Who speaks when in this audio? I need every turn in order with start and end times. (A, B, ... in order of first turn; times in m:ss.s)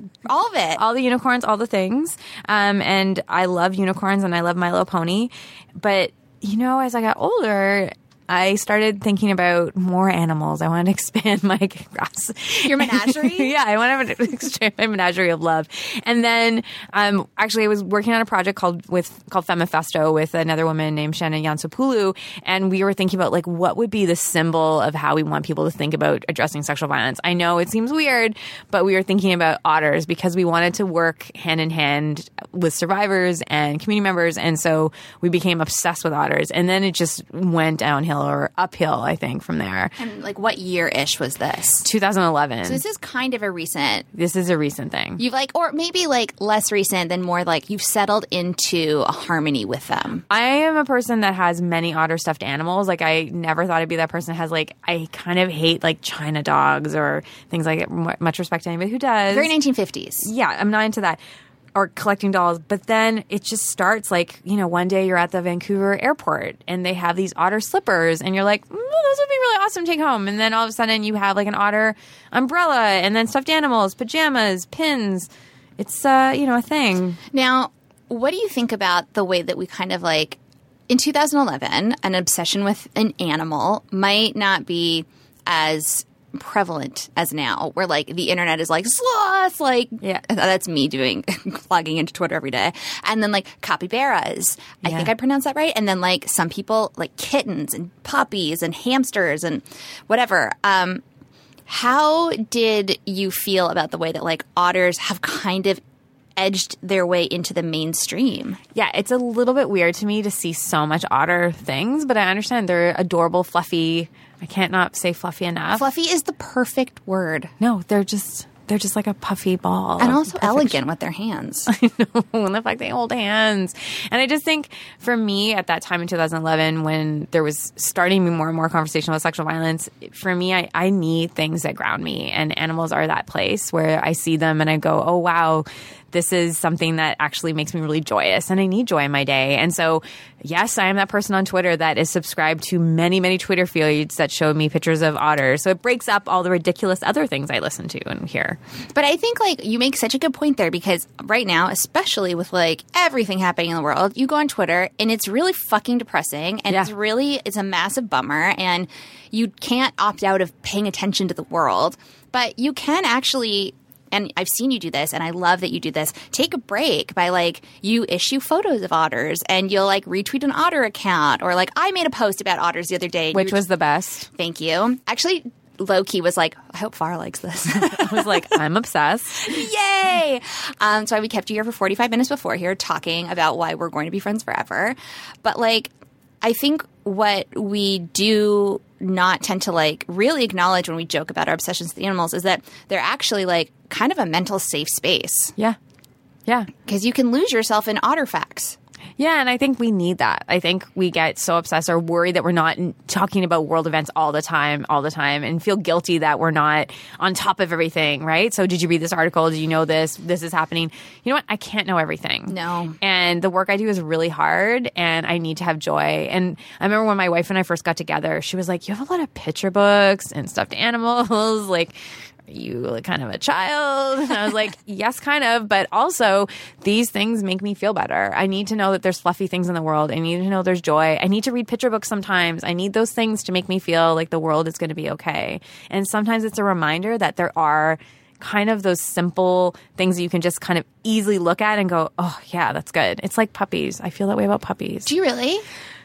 0:00.2-0:00.8 A
0:00.8-0:39.9 B
0:12.5-0:13.5 A
0:40.0-0:41.9 A
0:41.8-0:42.8 B
0:42.6-0:44.0 A
0:44.1-0:45.2 B
0:45.2-0:50.2 A
0:50.3-0:59.5 B
0:59.3-1:00.3 A
1:00.2-1:01.2 B
1:01.7-1:17.2 B
1:17.3-1:20.4 A
1:20.9-1:41.0 A
1:34.8-1:35.1 B
1:41.7-1:45.8 A
1:46.4-1:48.6 A
1:48.7-1:55.9 B
1:55.7-1:57.5 A
1:57.6-2:00.8 B
2:00.0-2:01.7 A
2:01.7-2:28.6 B
2:28.9-2:53.6 A
2:53.3-2:54.3 B
2:54.3-2:58.5 A
2:57.7-2:59.6 B
2:59.4-3:05.9 A
3:06.4-3:15.5 A
3:16.8-3:18.8 A
3:19.2-3:42.0 B
3:32.5-3:33.0 A
3:42.5-4:05.1 B
4:05.0-4:05.6 A